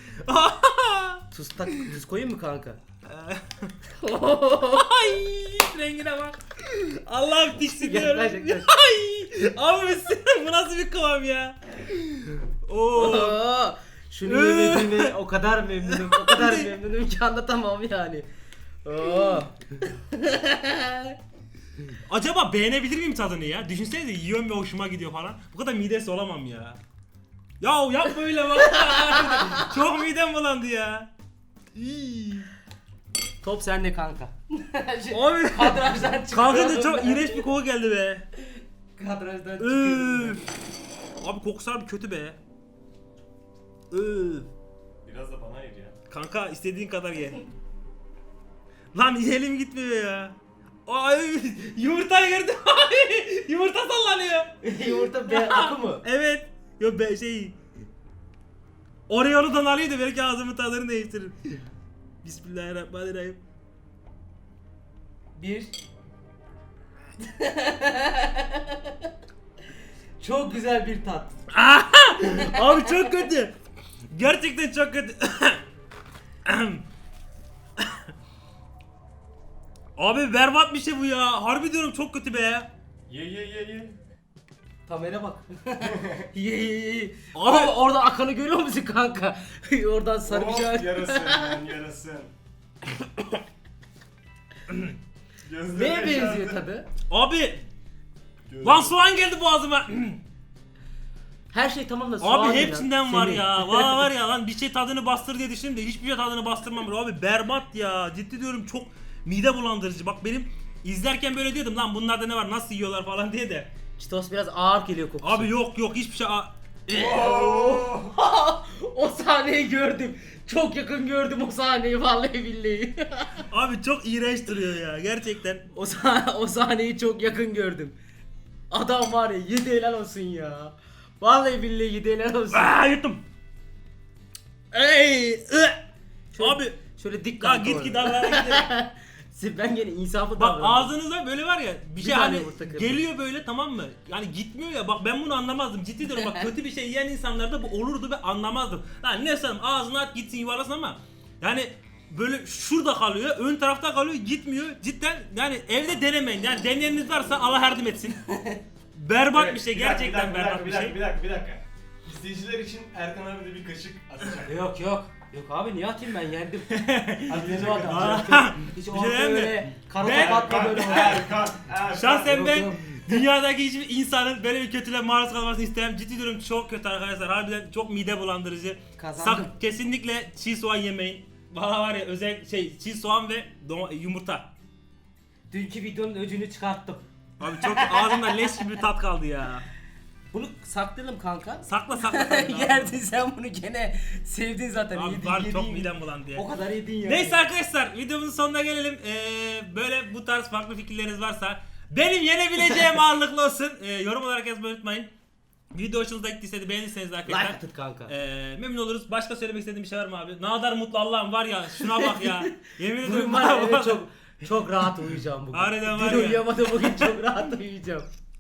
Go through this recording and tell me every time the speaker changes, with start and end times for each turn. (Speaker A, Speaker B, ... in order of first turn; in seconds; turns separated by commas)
Speaker A: 0.2-1.3, Speaker B: 1.3-2.8, Speaker A: 3.1-3.8, Speaker B: 4.0-4.9, Speaker A: 4.7-13.4, Speaker B: 7.7-8.7, Speaker B: 12.9-18.3, Speaker A: 14.2-15.2, Speaker A: 15.9-16.8, Speaker B: 18.9-21.2, Speaker A: 22.0-26.8, Speaker A: 27.6-31.1, Speaker B: 28.8-29.6, Speaker A: 31.7-32.5, Speaker B: 33.4-37.4, Speaker A: 35.1-38.3, Speaker B: 39.0-40.4, Speaker A: 39.6-40.5, Speaker A: 41.2-42.4, Speaker A: 43.9-44.5, Speaker C: 45.0-45.9, Speaker A: 46.1-47.5, Speaker A: 48.9-57.6, Speaker B: 54.6-56.0, Speaker A: 59.1-61.6, Speaker A: 62.2-63.4, Speaker B: 65.4-65.7, Speaker B: 67.2-69.0, Speaker B: 70.2-71.3, Speaker A: 71.5-73.5, Speaker A: 74.1-75.6, Speaker A: 76.5-76.8, Speaker A: 77.8-78.1, Speaker A: 80.0-82.7, Speaker C: 83.1-84.0, Speaker B: 84.9-91.7, Speaker A: 87.3-87.8, Speaker C: 90.3-92.3, Speaker A: 94.7-95.0, Speaker C: 95.5-96.6, Speaker B: 95.7-96.9, Speaker A: 97.1-97.6, Speaker C: 98.5-98.9, Speaker A: 98.6-100.2, Speaker B: 101.5-104.0, Speaker A: 102.2-113.7, Speaker B: 114.0-115.5, Speaker A: 115.2-116.5, Speaker B: 116.9-123.4, Speaker C: 117.2-117.9, Speaker A: 123.4-125.7, Speaker B: 125.7-128.0, Speaker B: 128.7-132.7, Speaker A: 132.5-133.2, Speaker A: 134.7-135.8, Speaker B: 136.3-140.9, Speaker A: 136.4-136.8, Speaker A: 137.4-138.7, Speaker A: 140.4-158.3, Speaker B: 142.0-143.0, Speaker B: 146.1-146.4, Speaker B: 158.3-158.6, Speaker A: 158.9-161.0, Speaker C: 159.4-164.5, Speaker B: 164.4-171.5, Speaker A: 166.7-184.5, Speaker C: 167.3-168.2, Speaker C: 170.1-172.3, Speaker B: 172.2-173.2, Speaker B: 179.0-179.5, Speaker B: 185.5-188.3, Speaker A: 187.4-189.7, Speaker B: 190.3-197.4, Speaker A: 191.6-193.0, Speaker A: 194.9-196.5, Speaker A: 197.1-205.1, Speaker A: 205.7-217.4, Speaker B: 207.3-208.1, Speaker B: 211.9-212.5, Speaker B: 213.0-218.1